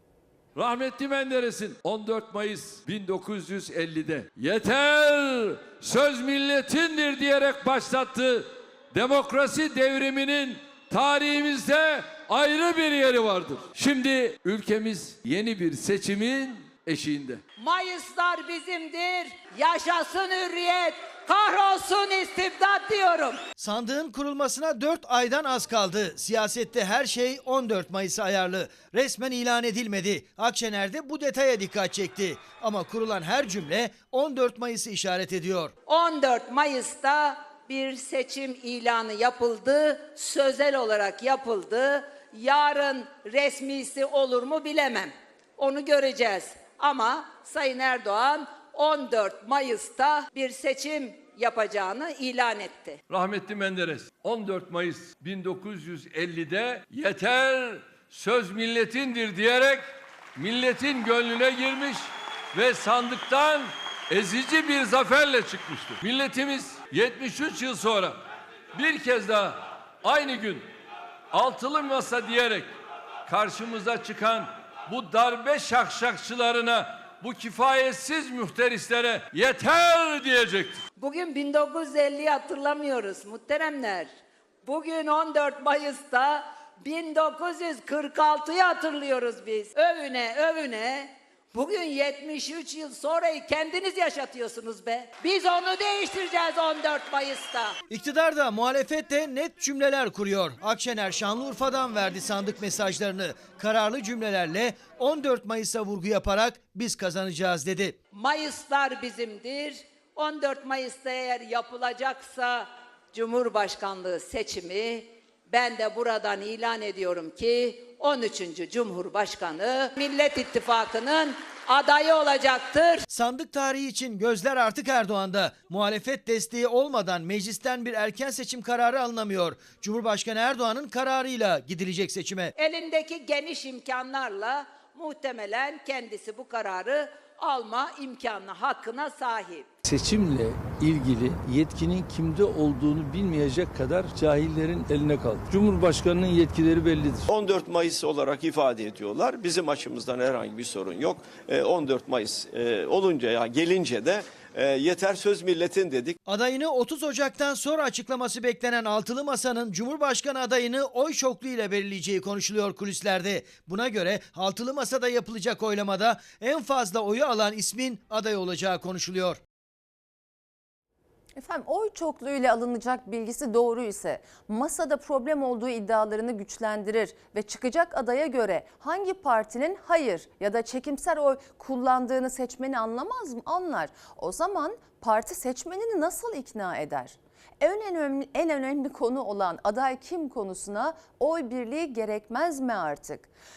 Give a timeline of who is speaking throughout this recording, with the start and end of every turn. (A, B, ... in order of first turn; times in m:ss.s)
0:00.5-0:17.4 A
0:17.6-0:23.4 B
0:23.6-0:35.7 C
0:35.9-0:53.0 B
0:53.1-0:59.8 A
1:00.4-1:08.1 A
1:08.7-1:10.6 A
1:11.3-1:12.7 A
1:13.3-1:20.8 A
1:21.0-1:24.1 B
1:24.6-1:37.7 B
1:37.9-1:48.0 C
1:48.1-2:03.0 B
2:03.1-2:12.5 C
2:12.6-2:19.7 B
2:19.9-2:27.2 D
2:27.3-2:36.2 E
2:36.2-2:49.4 C
2:51.4-3:13.3 F